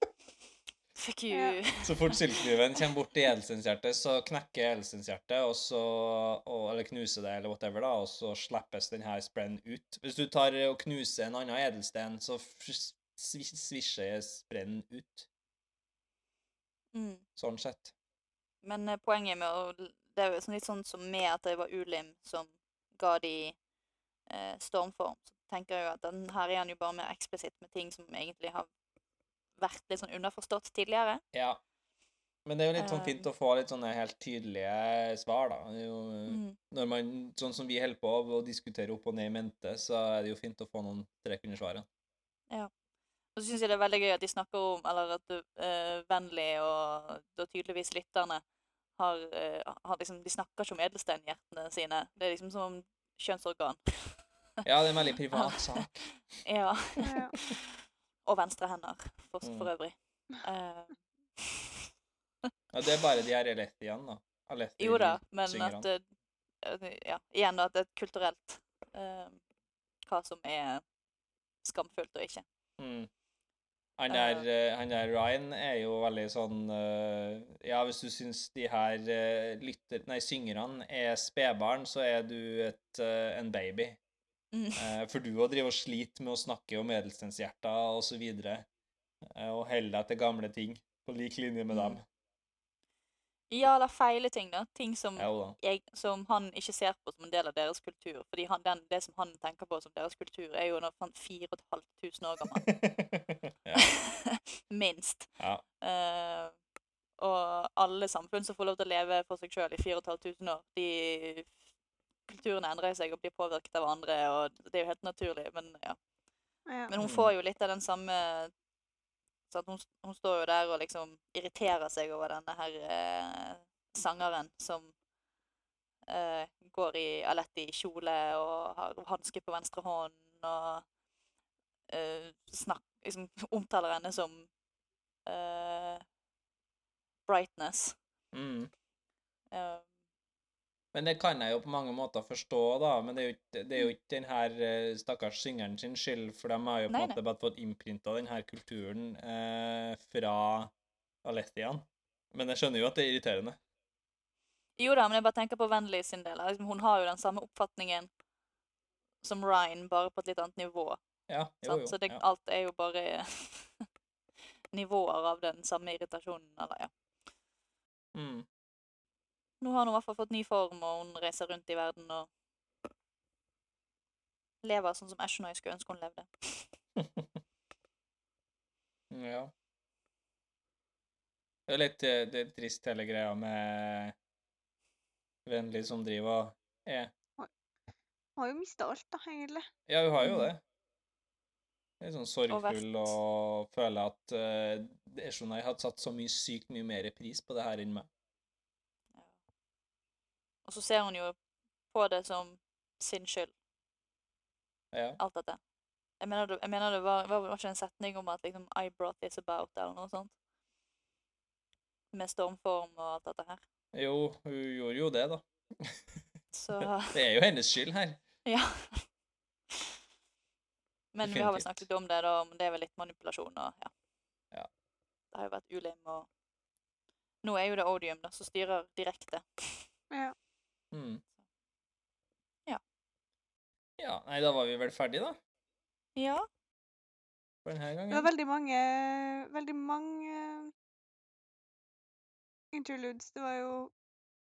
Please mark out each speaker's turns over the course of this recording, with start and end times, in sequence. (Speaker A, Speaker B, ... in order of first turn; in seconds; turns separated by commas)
Speaker A: 0.9-2.4, Speaker B: 1.3-1.6, Speaker C: 1.8-15.3, Speaker A: 16.9-17.2, Speaker C: 17.4-17.9, Speaker A: 18.6-23.6, Speaker A: 24.3-28.7, Speaker A: 29.6-31.2, Speaker C: 31.3-31.6, Speaker C: 32.5-41.9, Speaker A: 32.8-33.3, Speaker A: 36.3-36.6, Speaker A: 43.4-48.4, Speaker A: 49.0-54.2, Speaker C: 54.6-56.0, Speaker A: 55.3-61.7, Speaker B: 57.0-57.3, Speaker C: 59.4-59.7, Speaker C: 62.7-65.9, Speaker A: 64.8-66.0, Speaker A: 66.6-69.4, Speaker A: 70.1-70.8, Speaker A: 71.6-72.4, Speaker C: 72.8-73.1, Speaker C: 74.0-84.0, Speaker A: 74.1-74.5, Speaker A: 84.5-84.9, Speaker C: 84.8-88.7, Speaker C: 89.2-92.0, Speaker A: 91.7-92.0, Speaker A: 93.5-102.7, Speaker C: 95.2-95.6, Speaker C: 102.6-103.9, Speaker A: 103.7-106.5, Speaker C: 105.4-105.6, Speaker A: 107.2-111.5, Speaker A: 112.3-116.0, Speaker B: 116.7-116.9, Speaker A: 116.9-118.5, Speaker C: 117.0-117.3, Speaker A: 119.5-124.9, Speaker A: 126.1-130.8, Speaker A: 131.9-134.5, Speaker A: 135.2-136.0, Speaker A: 137.3-137.9, Speaker C: 138.3-138.7, Speaker A: 139.5-139.8, Speaker C: 140.9-150.7, Speaker A: 146.9-147.2, Speaker C: 151.2-153.6, Speaker A: 154.8-158.1, Speaker A: 159.2-161.0, Speaker C: 161.3-162.2, Speaker A: 161.6-163.9, Speaker A: 164.7-166.9, Speaker C: 168.1-168.4, Speaker A: 169.6-172.3, Speaker A: 174.6-176.6, Speaker C: 177.0-177.3, Speaker C: 179.1-179.5, Speaker C: 181.7-184.1, Speaker C: 185.4-187.1, Speaker B: 188.4-189.7, Speaker C: 189.9-190.6, Speaker A: 190.2-190.5, Speaker C: 192.0-198.1, Speaker A: 192.5-193.1, Speaker A: 200.7-201.4, Speaker A: 201.9-203.5, Speaker C: 204.9-205.2, Speaker A: 205.2-205.6, Speaker A: 206.2-210.3, Speaker A: 212.1-213.6, Speaker C: 213.9-216.2, Speaker A: 216.5-217.2, Speaker C: 216.8-218.2, Speaker A: 218.4-219.1, Speaker A: 221.1-223.9, Speaker C: 221.2-221.8, Speaker A: 225.3-226.3, Speaker A: 227.4-229.8, Speaker C: 230.9-231.2, Speaker C: 234.0-235.4, Speaker A: 236.2-236.5, Speaker C: 237.6-238.3, Speaker B: 238.1-240.7, Speaker B: 242.7-243.9